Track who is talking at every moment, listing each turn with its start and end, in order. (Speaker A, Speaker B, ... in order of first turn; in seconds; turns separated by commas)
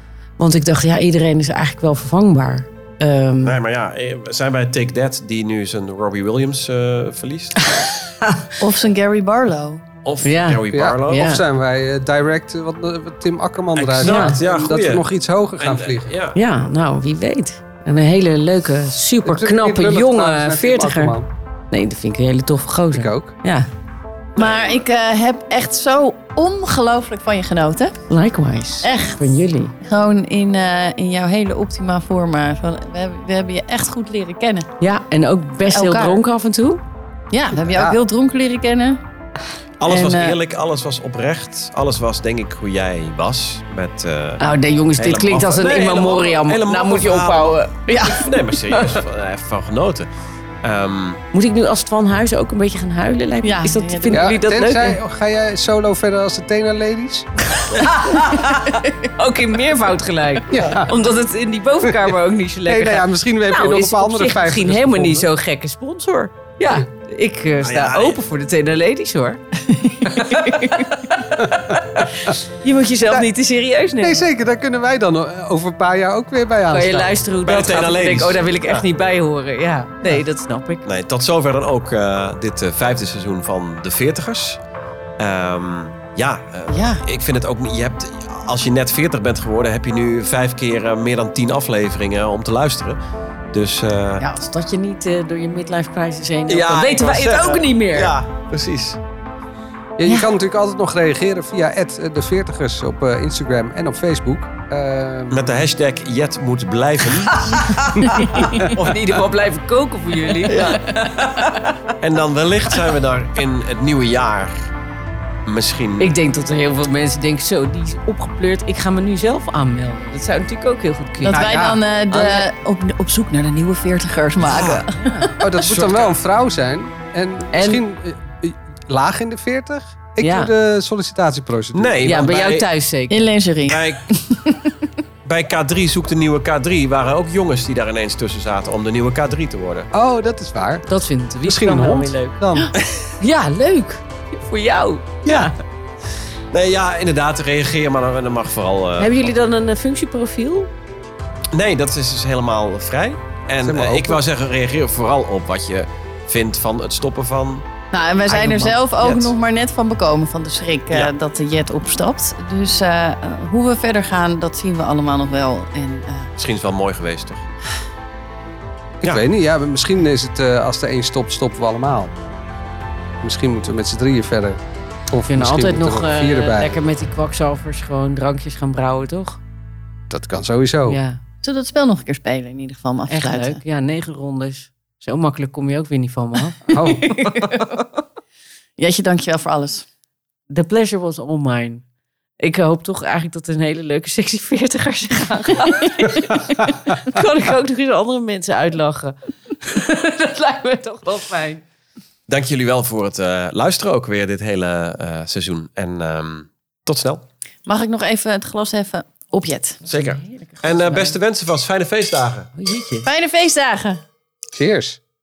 Speaker A: 0.4-3.5, Speaker B: 3.4-7.8, Speaker A: 7.7-8.5, Speaker C: 8.6-9.8, Speaker B: 10.0-11.3, Speaker A: 10.2-11.4, Speaker D: 10.7-16.1, Speaker B: 13.7-15.0, Speaker A: 14.0-14.4, Speaker B: 15.6-16.4, Speaker A: 16.3-21.1, Speaker D: 19.2-21.3, Speaker A: 21.7-23.7, Speaker D: 22.9-23.3, Speaker C: 24.4-28.0, Speaker A: 28.1-29.7, Speaker C: 28.8-29.2, Speaker C: 29.8-34.7, Speaker A: 34.8-36.8, Speaker C: 35.7-36.2, Speaker C: 37.3-39.0, Speaker D: 37.6-38.0, Speaker B: 39.8-44.4, Speaker C: 39.9-40.4, Speaker A: 44.4-49.0, Speaker B: 44.9-50.1, Speaker B: 50.6-51.2, Speaker A: 51.3-55.0, Speaker C: 53.4-54.4, Speaker D: 54.1-57.3, Speaker A: 57.6-69.4, Speaker B: 57.8-58.0, Speaker C: 58.4-58.8, Speaker D: 60.5-60.9, Speaker D: 62.6-65.3, Speaker B: 67.6-68.2, Speaker A: 70.0-74.2, Speaker D: 71.4-72.3, Speaker D: 74.0-77.2, Speaker A: 76.7-80.8, Speaker B: 77.4-78.9, Speaker B: 80.8-84.6, Speaker B: 85.2-93.0, Speaker C: 86.7-87.0, Speaker B: 93.5-94.2, Speaker A: 94.2-98.1, Speaker B: 96.5-99.0, Speaker D: 100.0-105.4, Speaker B: 105.3-109.2, Speaker A: 107.2-111.8, Speaker B: 110.4-111.3, Speaker B: 112.0-114.7, Speaker B: 115.5-116.1, Speaker A: 116.0-121.6, Speaker C: 121.2-125.3, Speaker D: 121.3-121.8, Speaker A: 122.1-122.5, Speaker B: 124.4-124.9, Speaker A: 125.0-125.3, Speaker D: 125.4-132.2, Speaker B: 125.6-126.1, Speaker A: 127.5-127.8, Speaker A: 130.2-130.5, Speaker B: 131.7-132.7, Speaker A: 132.0-133.3, Speaker C: 133.1-134.5, Speaker B: 133.6-134.2, Speaker B: 135.2-139.9, Speaker D: 139.9-140.9, Speaker A: 140.9-142.4, Speaker D: 141.4-142.7, Speaker A: 143.2-145.5, Speaker B: 145.2-145.5, Speaker B: 146.5-149.3, Speaker A: 149.0-150.7, Speaker B: 151.5-157.7, Speaker D: 153.6-154.2, Speaker C: 157.9-166.3, Speaker A: 158.3-158.7, Speaker B: 159.0-159.3, Speaker B: 166.4-167.4, Speaker D: 169.0-172.1, Speaker D: 173.2-174.6, Speaker D: 175.1-176.7, Speaker A: 175.3-179.4, Speaker D: 180.1-181.0, Speaker A: 180.9-181.2, Speaker C: 181.4-183.6, Speaker A: 183.1-187.8, Speaker D: 186.7-187.2, Speaker C: 188.8-189.8, Speaker A: 190.5-191.8, Speaker A: 192.4-201.6, Speaker B: 202.3-207.2, Speaker C: 207.7-209.8, Speaker B: 209.9-212.5, Speaker A: 209.9-211.1, Speaker A: 212.6-213.1, Speaker C: 213.0-214.0, Speaker D: 214.5-215.0